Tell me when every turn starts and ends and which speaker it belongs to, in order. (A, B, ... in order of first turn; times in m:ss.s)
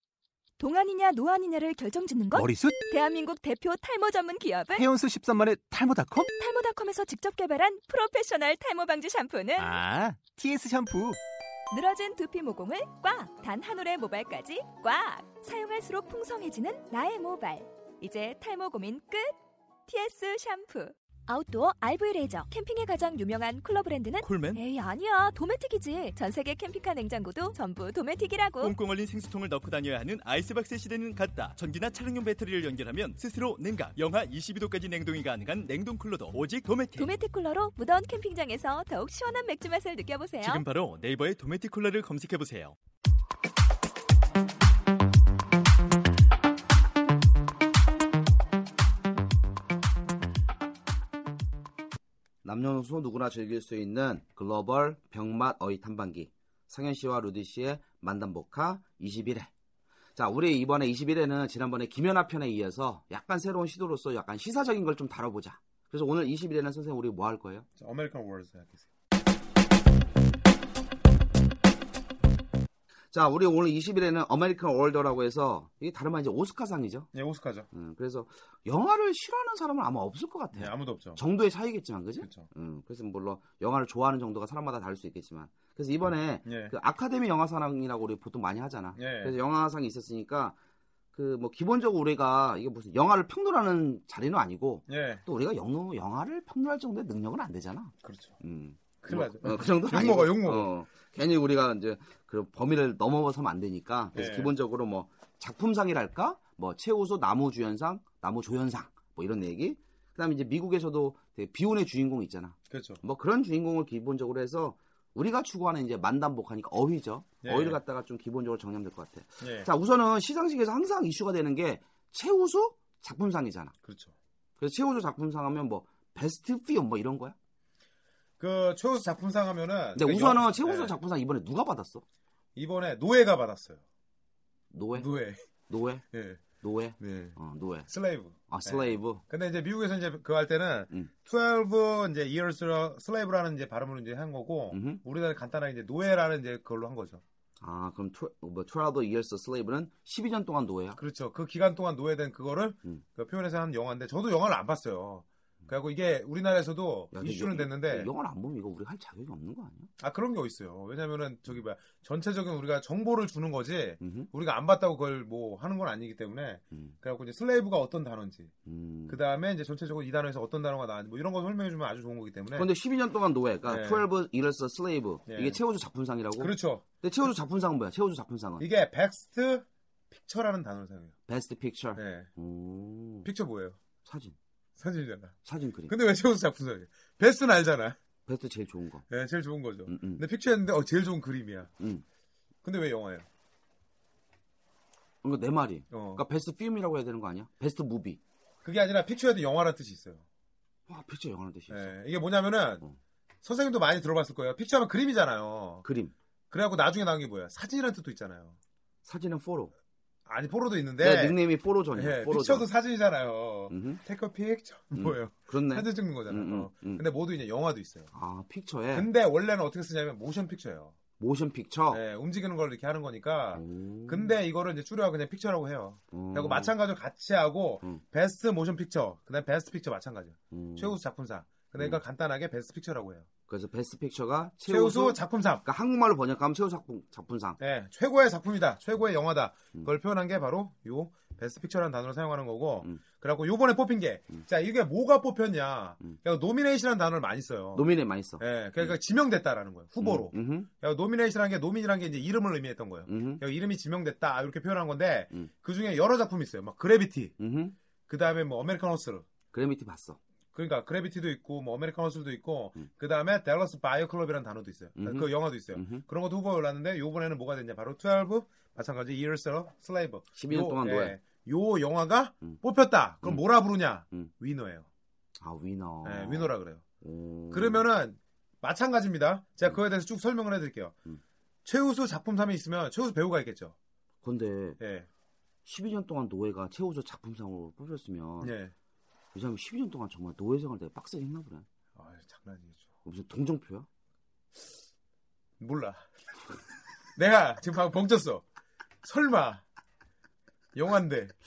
0:00.6-0:04.9 A
0:02.4-0:02.8 B
0:04.8-0:06.3 B
0:06.2-0:09.8 A
0:09.6-0:10.9 B
0:09.8-0:10.1 C
0:10.6-0:11.2 C
0:11.7-0:19.3 A
0:19.9-0:28.8 A
0:24.2-0:24.6 C
0:28.6-0:37.2 C
0:37.0-0:40.6 A
0:40.4-0:42.8 C
0:52.4-0:59.5 D
1:00.2-1:07.7 D
1:07.8-1:08.9 E
1:13.1-1:17.1 D
1:17.1-1:17.7 E
1:17.7-1:30.6 D
1:20.5-1:21.2 E
1:22.2-1:22.5 E
1:26.4-1:26.7 E
1:29.0-1:29.4 E
1:31.1-2:03.7 D
1:34.9-1:35.2 E
1:38.0-1:38.4 E
1:39.0-1:40.7 E
1:44.1-1:44.6 E
1:52.7-1:53.0 E
1:57.4-1:57.8 E
1:59.4-1:59.7 E
2:03.8-2:04.1 E
2:04.6-2:07.4 D
2:08.4-2:11.0 E
2:10.0-2:12.0 D
2:12.6-2:13.8 E
2:14.7-2:15.1 D
2:14.9-2:15.4 E
2:15.7-2:16.0 D
2:16.1-2:16.4 E
2:16.6-2:17.9 D
2:17.0-2:17.4 E
2:17.9-2:27.2 E
2:18.5-2:19.2 D
2:24.7-2:25.0 D
2:27.6-2:31.0 D
2:31.0-2:38.1 E
2:37.1-2:39.9 D
2:40.0-2:48.5 E
2:44.0-2:44.3 D
2:48.7-2:49.2 D
2:49.1-2:52.7 E
2:52.5-2:58.7 D
2:53.7-2:54.1 E
2:55.3-2:55.6 E
2:56.4-2:56.8 E
2:58.6-3:01.1 E
3:01.3-3:03.3 D
3:02.0-3:02.3 E
3:03.2-3:03.8 E
3:04.0-3:04.4 D
3:04.8-3:05.3 E
3:05.4-3:05.9 D
3:05.9-3:08.0 E
3:08.3-3:09.0 D
3:09.1-3:11.7 E
3:09.9-3:10.2 D
3:11.8-3:12.0 D
3:12.6-3:13.3 E
3:15.2-3:18.2 D
3:15.9-3:16.2 E
3:18.6-3:20.2 E
3:20.9-3:22.0 D
3:21.7-3:22.9 E
3:23.4-3:25.9 E
3:25.8-3:26.1 D
3:26.5-3:28.6 E
3:29.0-3:29.7 D
3:30.3-3:31.4 E
3:31.0-3:32.7 D
3:31.9-3:38.1 E
3:33.7-3:34.0 D
3:35.0-3:37.0 D
3:38.1-3:39.1 D
3:38.9-3:41.0 E
3:41.2-3:42.0 D
3:41.9-3:53.3 E
3:43.5-3:44.4 D
3:46.1-3:46.8 D
3:50.5-3:51.0 D
3:53.5-3:57.6 D
3:54.7-3:55.6 E
3:57.6-4:07.9 E
4:07.7-4:09.0 D
4:08.4-4:17.3 E
4:10.0-4:10.7 D
4:13.1-4:13.4 D
4:17.4-4:17.8 D
4:18.1-4:19.2 E
4:19.5-4:20.2 D
4:20.5-4:34.8 E
4:25.0-4:26.0 D
4:30.4-4:31.2 D
4:35.4-4:37.8 D
4:36.0-4:36.8 E
4:37.5-4:41.0 E
4:41.6-4:43.7 E
4:44.2-4:44.8 D
4:44.8-4:45.1 E
4:45.6-4:48.6 D
4:48.4-4:48.7 E
4:49.3-4:51.6 D
4:51.9-4:52.8 E
4:53.0-4:53.9 D
4:55.6-4:56.0 E
4:57.2-4:58.4 E
4:59.0-4:59.6 E
5:00.8-5:01.3 E